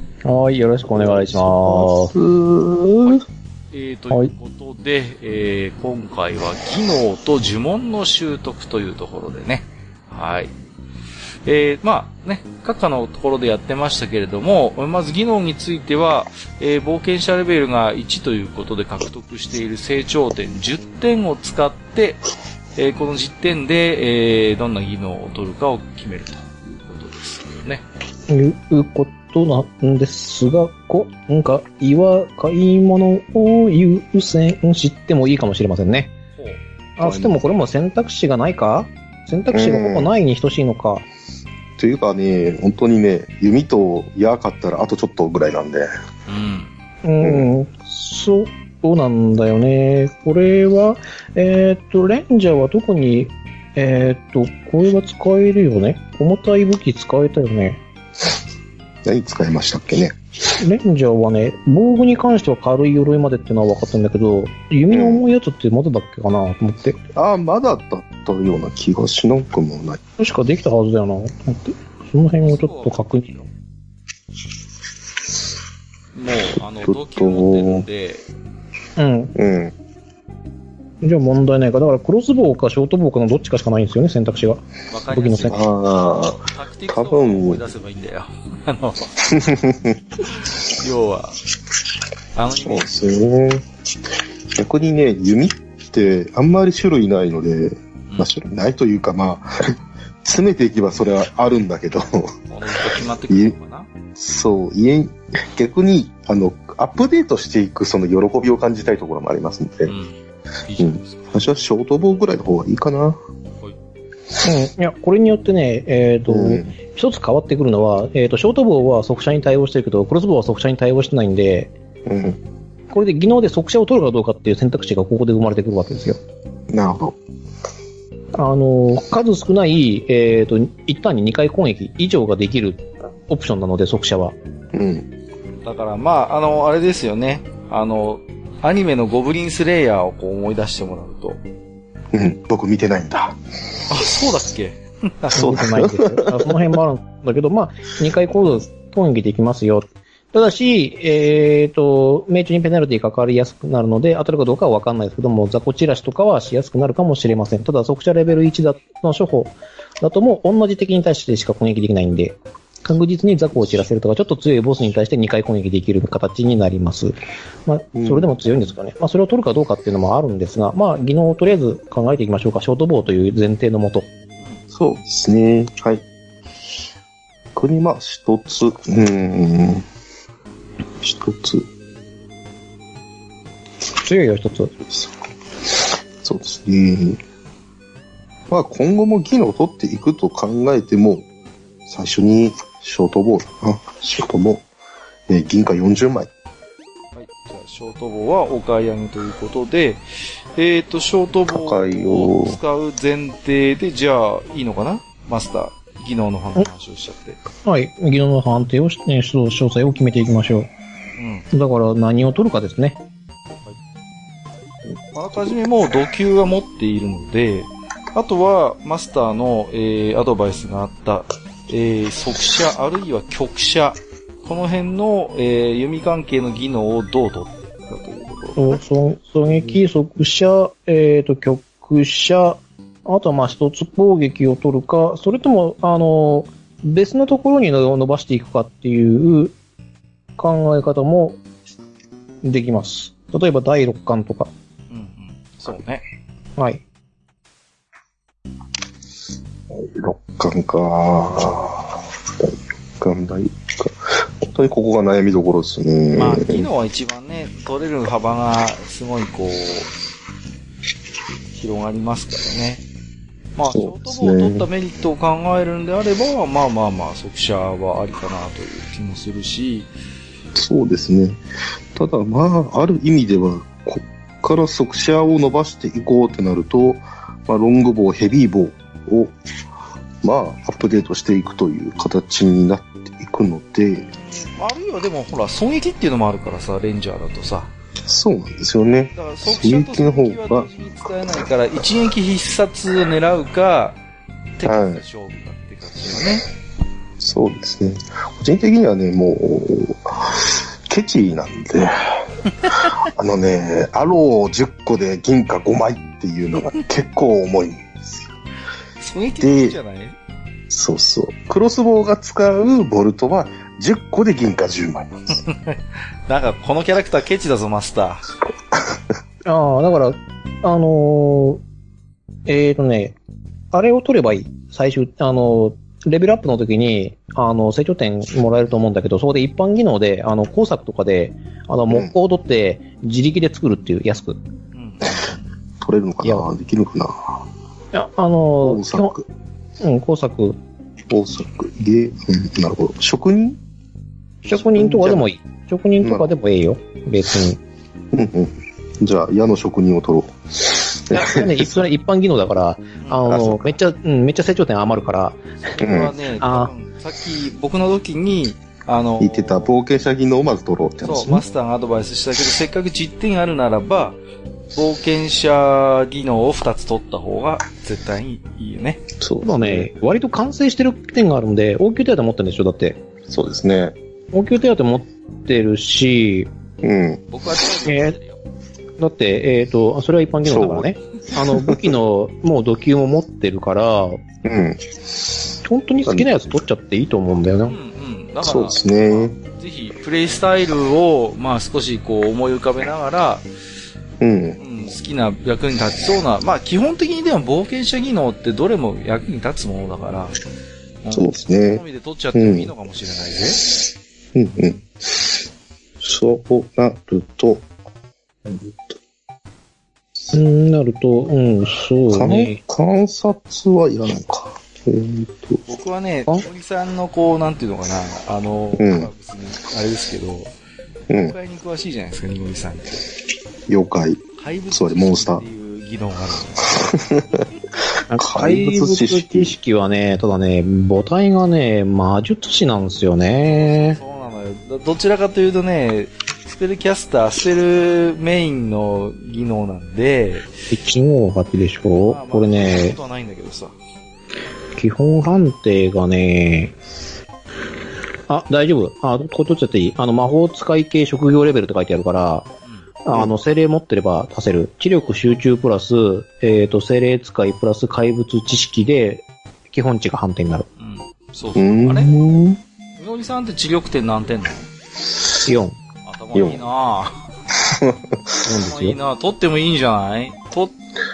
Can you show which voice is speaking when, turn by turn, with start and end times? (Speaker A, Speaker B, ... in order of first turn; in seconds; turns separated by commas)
Speaker A: 0.2-2.1, Speaker B: 0.9-3.2, Speaker C: 3.0-10.5, Speaker C: 11.4-22.2, Speaker C: 22.8-27.9, Speaker A: 28.3-36.1, Speaker C: 36.4-37.2, Speaker A: 37.0-41.1, Speaker B: 39.5-40.1, Speaker B: 41.8-45.9, Speaker C: 46.3-46.7, Speaker A: 47.0-57.8, Speaker B: 47.2-47.5, Speaker B: 59.1-60.2, Speaker A: 60.6-67.0, Speaker B: 64.9-65.3, Speaker B: 67.2-70.0, Speaker A: 70.2-73.4, Speaker C: 72.4-73.5, Speaker C: 76.2-78.3, Speaker B: 76.8-77.8, Speaker A: 79.0-79.3, Speaker B: 79.4-79.7, Speaker A: 81.0-85.6, Speaker C: 84.9-89.1, Speaker B: 85.5-87.6, Speaker B: 89.3-90.0, Speaker C: 90.7-91.4, Speaker C: 92.3-93.0, Speaker B: 92.6-93.7, Speaker B: 94.6-102.3, Speaker C: 102.5-103.9, Speaker B: 103.3-103.5, Speaker B: 104.2-109.9, Speaker C: 109.9-111.5, Speaker B: 110.8-113.2, Speaker A: 114.4-121.7, Speaker B: 116.3-116.7, Speaker B: 122.1-122.4, Speaker A: 122.9-126.2, Speaker B: 126.7-127.2, Speaker A: 128.4-134.4, Speaker B: 134.7-135.1, Speaker C: 135.6-141.4, Speaker B: 142.1-143.4, Speaker C: 143.9-145.6, Speaker B: 145.3-146.8, Speaker A: 145.3-174.1, Speaker B: 167.9-168.3, Speaker B: 174.7-176.0, Speaker B: 177.6-179.9, Speaker B: 181.0-181.7, Speaker A: 184.0-184.7, Speaker B: 185.7-187.2, Speaker B: 188.5-191.3, Speaker B: 191.9-194.7, Speaker B: 195.3-196.3, Speaker C: 197.1-200.0, Speaker C: 200.6-207.4, Speaker B: 201.5-202.6, Speaker A: 207.6-210.7, Speaker C: 211.2-211.5, Speaker A: 211.5-213.0, Speaker C: 215.1-228.7, Speaker A: 228.6-239.6, Speaker A: 240.4-241.4, Speaker A: 242.4-244.5, Speaker C: 244.9-246.0, Speaker A: 246.6-246.8, Speaker B: 249.7-256.7, Speaker C: 256.1-259.9, Speaker C: 261.6-262.8, Speaker C: 263.6-269.9, Speaker B: 263.7-264.7, Speaker B: 270.6-271.4, Speaker B: 272.0-279.4, Speaker B: 280.2-284.1, Speaker C: 284.6-287.7, Speaker B: 288.1-290.7, Speaker C: 289.1-294.0, Speaker C: 294.6-296.4, Speaker B: 294.6-295.0, Speaker B: 297.2-308.3, Speaker C: 309.0-310.2, Speaker B: 309.4-309.8, Speaker B: 310.7-315.3, Speaker C: 315.5-318.2, Speaker A: 319.4-321.6, Speaker A: 322.5-323.2, Speaker A: 323.7-334.4, Speaker C: 334.7-335.5, Speaker B: 335.8-337.4, Speaker A: 337.9-339.1, Speaker B: 338.6-339.2, Speaker A: 339.8-340.6, Speaker B: 341.1-343.6, Speaker A: 344.4-347.6, Speaker B: 344.5-345.2, Speaker B: 346.0-346.3, Speaker B: 348.1-351.9, Speaker A: 351.1-355.4, Speaker C: 353.0-353.3, Speaker B: 353.3-353.8, Speaker C: 355.6-359.7, Speaker B: 355.8-356.1, Speaker A: 356.4-356.7, Speaker B: 359.2-361.4, Speaker C: 361.0-364.2, Speaker C: 364.7-369.1, Speaker B: 369.2-369.9, Speaker A: 369.4-373.0, Speaker B: 373.3-374.0, Speaker A: 374.3-376.5, Speaker B: 376.8-377.2, Speaker C: 377.3-378.4, Speaker A: 377.9-378.2, Speaker A: 379.0-384.2, Speaker B: 380.5-380.9, Speaker B: 381.5-381.9, Speaker B: 384.4-384.9, Speaker A: 385.6-387.8, Speaker C: 387.6-393.5, Speaker B: 388.4-389.4, Speaker B: 394.2-394.6, Speaker C: 394.6-400.4, Speaker C: 401.0-403.7, Speaker B: 401.1-401.8, Speaker B: 402.3-402.7, Speaker B: 404.4-404.9, Speaker B: 406.0-407.6, Speaker B: 408.5-409.0, Speaker A: 410.3-412.6, Speaker B: 412.1-415.6, Speaker C: 415.7-420.5, Speaker B: 418.8-419.1, Speaker B: 421.1-421.4, Speaker C: 421.2-423.0, Speaker B: 423.7-425.4, Speaker C: 424.4-427.0, Speaker B: 426.8-427.3, Speaker A: 428.1-434.0, Speaker B: 428.2-429.6, Speaker C: 433.4-440.5, Speaker A: 440.7-443.0, Speaker C: 442.0-443.8, Speaker A: 444.8-446.8, Speaker A: 448.3-452.5, Speaker A: 453.1-460.7, Speaker C: 460.8-462.1, Speaker B: 461.6-462.6, Speaker C: 463.0-464.7, Speaker A: 465.4-465.8, Speaker C: 466.0-467.3, Speaker B: 466.4-466.6, Speaker B: 467.6-468.4, Speaker A: 468.4-469.0, Speaker C: 468.6-470.8